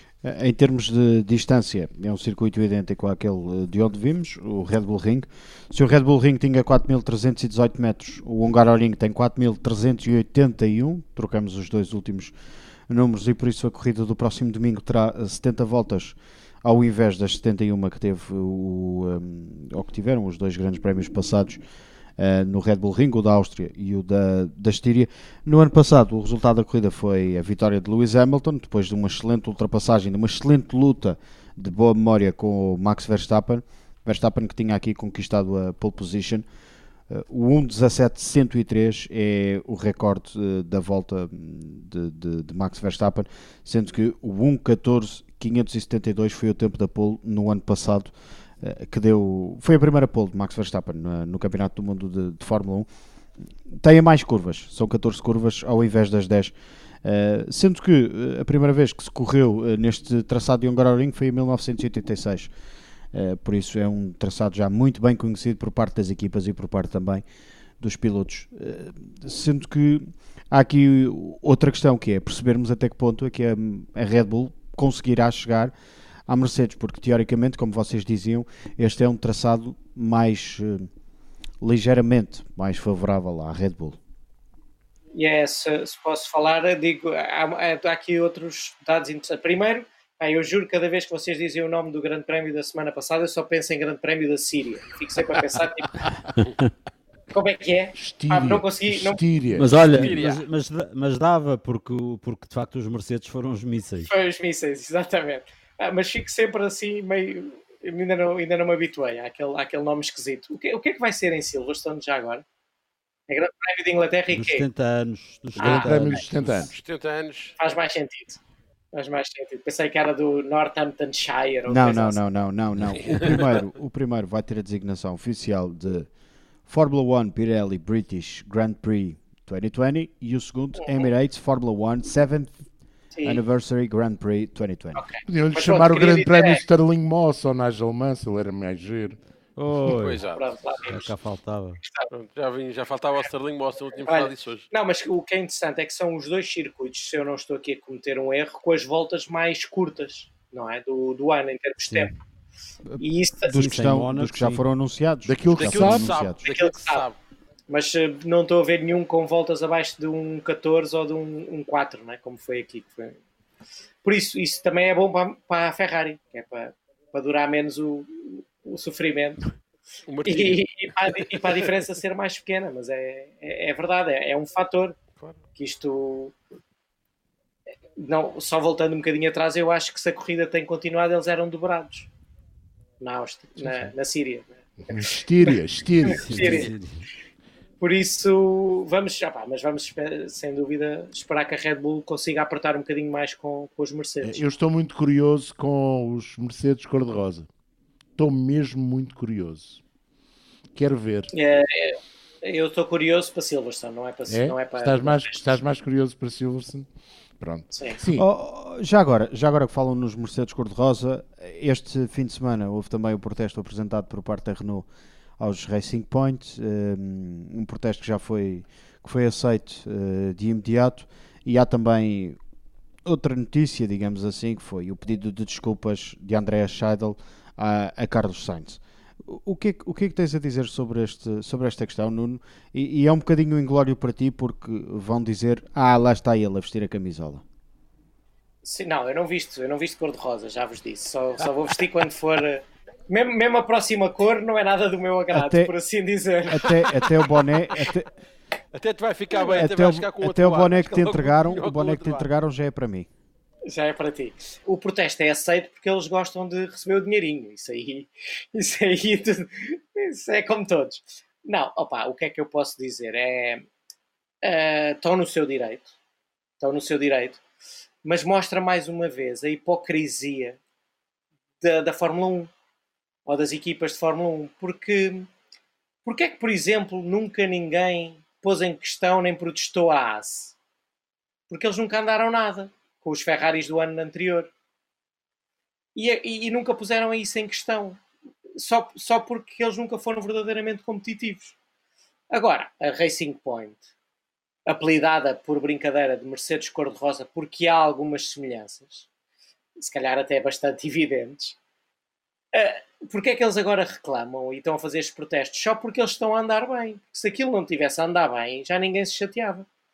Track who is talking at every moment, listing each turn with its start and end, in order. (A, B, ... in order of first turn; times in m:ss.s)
0:00.2-0:12.3 A
0:12.9-0:21.6 A
0:22.2-0:36.4 A
0:37.1-0:52.9 A
0:53.7-1:02.5 A
1:03.1-1:07.2 A
1:07.8-1:15.7 A
1:16.3-1:20.9 A
1:21.6-1:24.0 A
1:25.1-1:36.0 B
1:36.4-1:36.7 C
1:37.3-1:39.2 B
1:38.0-1:40.0 D
1:39.5-1:44.1 C
1:39.8-1:40.4 E
1:44.0-1:52.4 B
1:53.3-1:54.6 B
1:54.3-1:56.8 C
1:55.6-1:56.0 B
1:55.6-1:56.7 D
1:56.6-1:57.6 E
1:57.6-1:58.4 B
1:58.9-2:02.2 B
2:01.6-2:06.1 A
2:06.7-2:12.6 A
2:13.1-2:13.4 B
2:13.2-2:15.1 A
2:15.0-2:16.6 B
2:15.3-2:19.2 D
2:19.6-2:20.2 C
2:19.8-2:21.0 E
2:20.2-2:21.0 B
2:20.9-2:21.8 C
2:22.1-2:24.6 E
2:24.0-2:32.1 B
2:31.8-2:32.1 C
2:32.9-2:34.6 C
2:33.0-2:33.7 B
2:33.4-2:36.4 A
2:35.3-2:36.2 D
2:35.6-2:37.2 E
2:36.4-2:37.1 B
2:37.7-2:43.2 B
2:44.0-2:49.4 B
2:50.1-2:51.5 E
2:50.2-2:55.0 B
2:55.6-2:56.3 B
2:58.0-3:02.1 B
3:03.0-3:06.7 B
3:04.9-3:06.7 D
3:06.1-3:07.0 C
3:07.8-3:14.4 B
3:14.2-3:17.5 D
3:18.2-3:19.8 D
3:20.7-3:21.3 D
3:21.3-3:25.5 B
3:24.3-3:26.9 D
3:27.4-3:28.2 D
3:27.7-3:28.0 B
3:28.1-3:34.9 A
3:35.4-3:42.4 A
3:43.0-3:57.4 A
3:58.6-4:07.0 B
4:05.3-4:05.7 A
4:06.5-4:08.1 A
4:08.7-4:12.3 E
4:09.5-4:13.1 A
4:13.7-4:23.6 B
4:24.4-4:25.9 B
4:26.6-4:27.4 B
4:28.0-4:30.6 B
4:31.6-4:32.5 B
4:33.3-4:35.3 B
4:36.0-4:40.5 B
4:41.5-4:44.5 B
4:46.0-4:48.0 B
4:48.6-4:51.6 B
4:52.3-4:53.9 B
4:54.7-4:59.0 B
4:59.8-5:01.6 B
5:02.5-5:09.6 B